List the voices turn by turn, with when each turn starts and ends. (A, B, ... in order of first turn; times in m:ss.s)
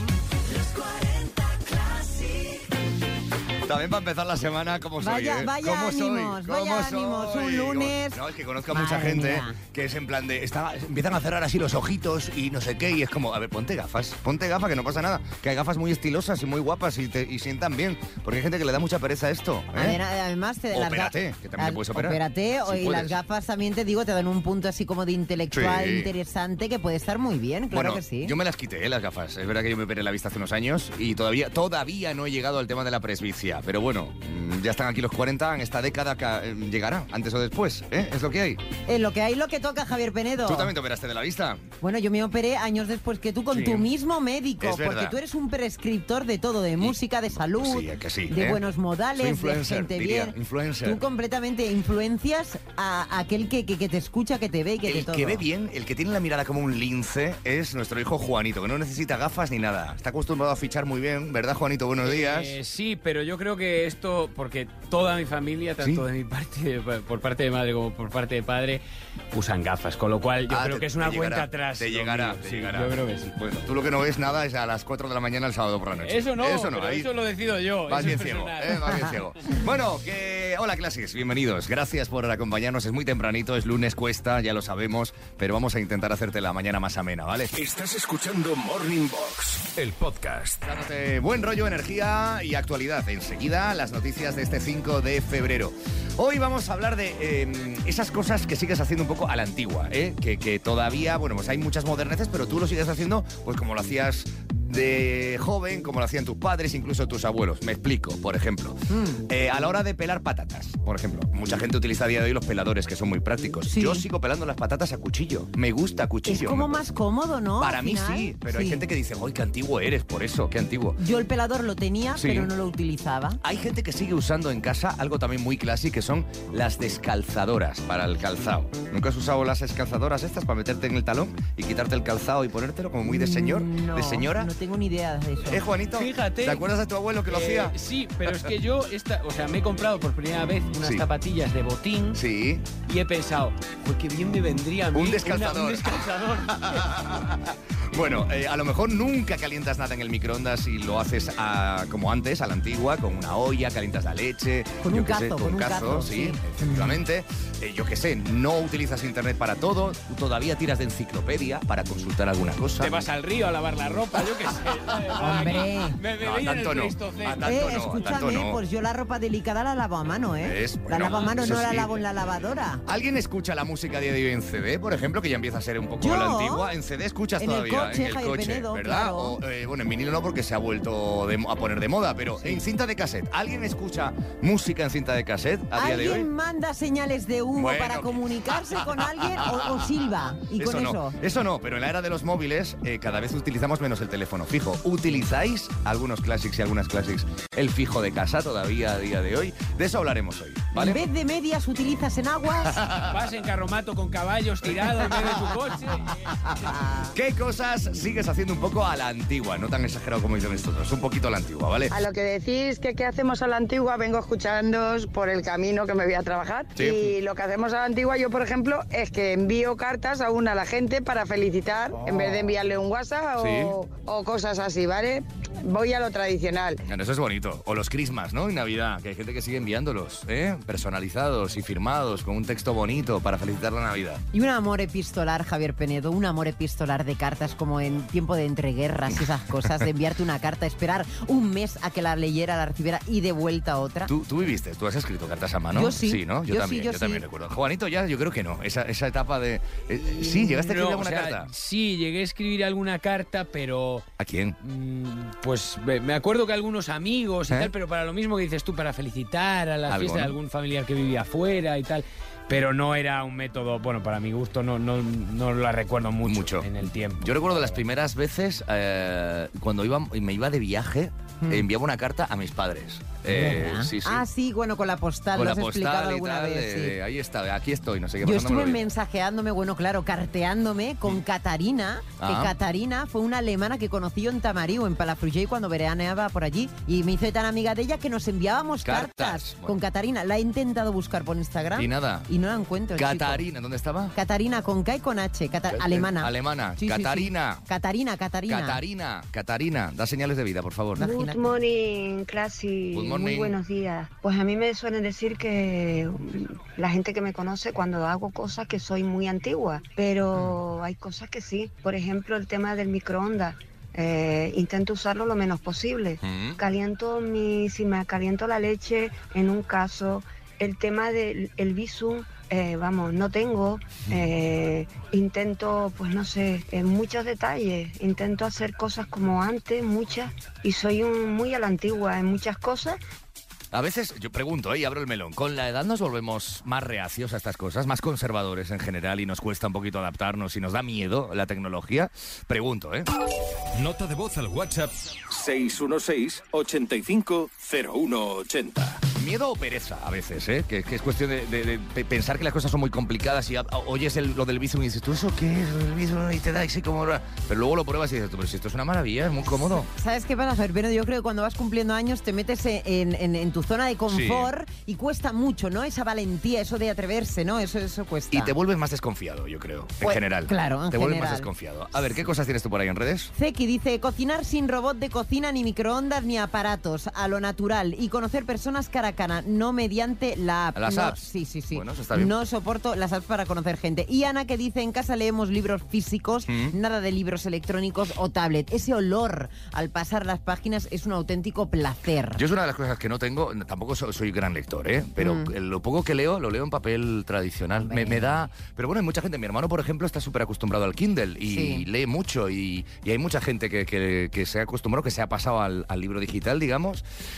0:00.7-0:01.2 A
0:00.8-0:02.5 B
0:03.6-0:20.0 B
0:05.0-0:08.2 A
0:08.7-0:09.6 A
0:19.7-0:28.3 A
0:20.7-0:23.2 B
0:25.5-0:26.1 B
0:27.7-0:38.6 B
0:38.9-0:40.7 A
0:40.4-0:41.7 B
0:41.8-0:55.4 A
0:43.5-0:43.9 B
0:44.6-0:45.2 B
0:46.8-0:48.6 B
0:49.2-0:51.0 B
0:54.9-1:02.6 B
1:02.0-1:13.4 C
1:05.8-1:06.0 B
1:10.5-1:17.1 B
1:16.0-1:19.2 C
1:17.9-1:27.5 B
1:27.5-1:30.6 D
1:30.6-1:56.8 B
1:48.9-1:49.2 A
1:53.7-1:54.1 A
1:56.3-1:58.8 A
1:57.6-2:01.0 B
2:01.0-2:03.4 A
2:02.2-2:02.5 B
2:03.4-2:14.5 B
2:13.0-2:15.6 A
2:15.5-2:17.8 B
2:16.0-2:16.6 C
2:17.3-2:22.2 C
2:20.8-2:21.1 B
2:22.1-2:22.7 B
2:22.7-2:26.9 C
2:24.9-2:43.1 B
2:34.8-2:37.0 A
2:42.8-2:48.2 C
2:44.7-2:45.6 B
2:45.2-2:46.0 A
2:46.2-2:48.6 B
2:47.4-2:52.8 A
2:50.4-2:51.9 B
2:51.0-2:51.6 C
2:52.9-3:06.3 B
2:56.0-2:56.7 A
2:57.4-2:59.4 A
3:05.8-3:11.2 A
3:07.6-3:21.0 B
3:20.8-3:22.8 A
3:22.6-3:23.3 B
3:23.0-3:26.1 C
3:26.5-3:27.1 A
3:27.1-3:31.9 B
3:31.9-3:46.8 E
3:36.8-3:37.1 B
3:43.4-3:43.8 B
3:46.8-3:54.2 B
3:54.3-4:04.1 A
4:04.1-4:11.5 B
4:05.7-4:07.2 A
4:10.1-4:14.1 C
4:14.2-4:14.6 B
4:14.6-4:27.8 C
4:17.5-4:17.7 B
4:19.9-4:20.4 B
4:26.2-4:26.7 B
4:27.2-4:34.2 B
4:33.3-4:37.0 A
4:35.3-4:38.8 B
4:38.2-4:53.4 A
4:42.2-4:42.5 B
4:48.8-4:49.8 B
4:51.8-4:52.3 B
4:53.0-4:54.2 B
4:54.2-4:58.8 A
4:55.7-4:57.6 B
4:58.5-5:01.0 B
5:01.0-5:01.4 A
5:01.0-5:33.0 F
5:02.9-5:03.6 B
5:16.2-5:16.6 B
5:33.7-5:43.1 B
5:43.7-5:49.0 D
5:45.5-5:46.6 B
5:49.1-5:59.9 B
5:59.5-6:08.6 A
6:04.1-6:04.5 B
6:08.3-6:13.3 B
6:10.0-6:11.5 A
6:13.4-6:32.4 A
6:20.8-6:22.3 B
6:26.5-6:26.7 B
6:32.4-6:47.0 B
6:35.2-6:35.5 A
6:37.9-6:38.3 A
6:41.5-6:41.9 A